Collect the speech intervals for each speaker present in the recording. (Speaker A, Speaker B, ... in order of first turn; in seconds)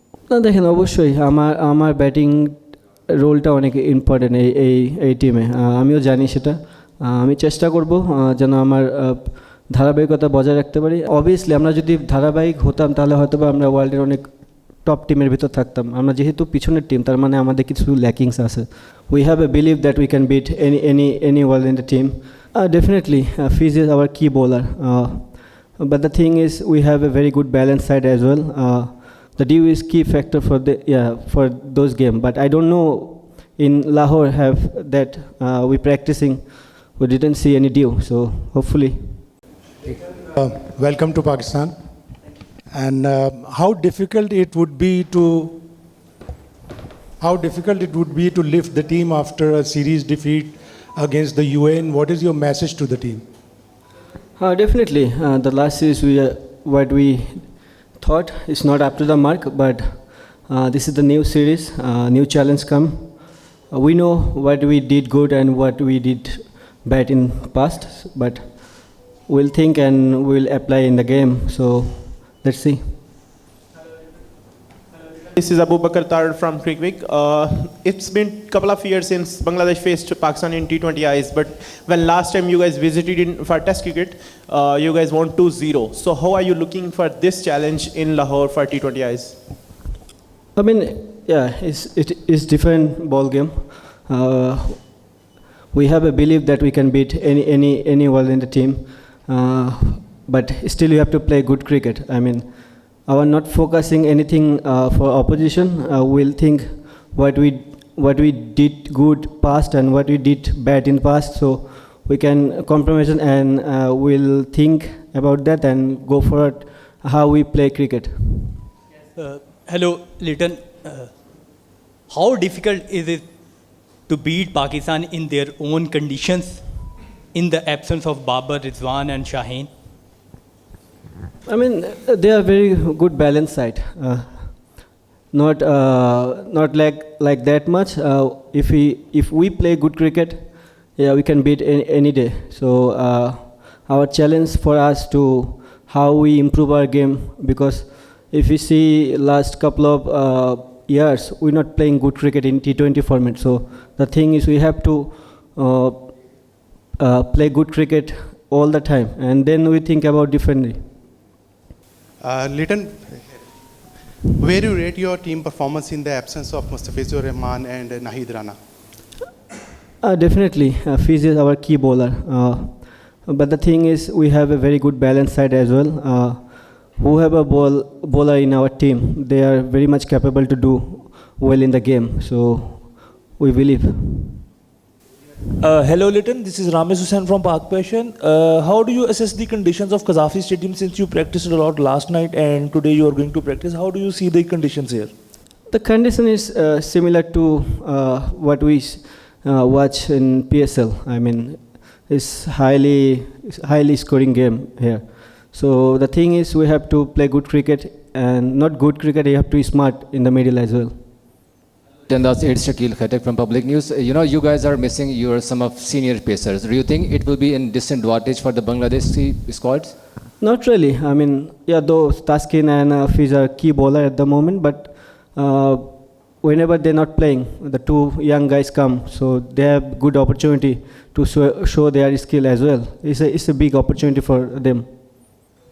Speaker A: 0.3-39.2, 54.4-72.9, 90.6-95.2, 95.7-118.5, 131.5-156.4, 157.0-160.8, 170.0-184.4, 195.7-210.9, 220.4-234.9
Speaker B: 39.9-41.8, 42.7-45.6, 47.2-53.2
Speaker C: 75.3-89.4
Speaker D: 119.2-121.1, 122.1-123.2, 124.1-126.7, 127.3-129.7
Speaker E: 162.2-163.4, 164.4-168.6
Speaker F: 185.6-194.9, 212.1-219.9
Speaker G: 185.7-195.1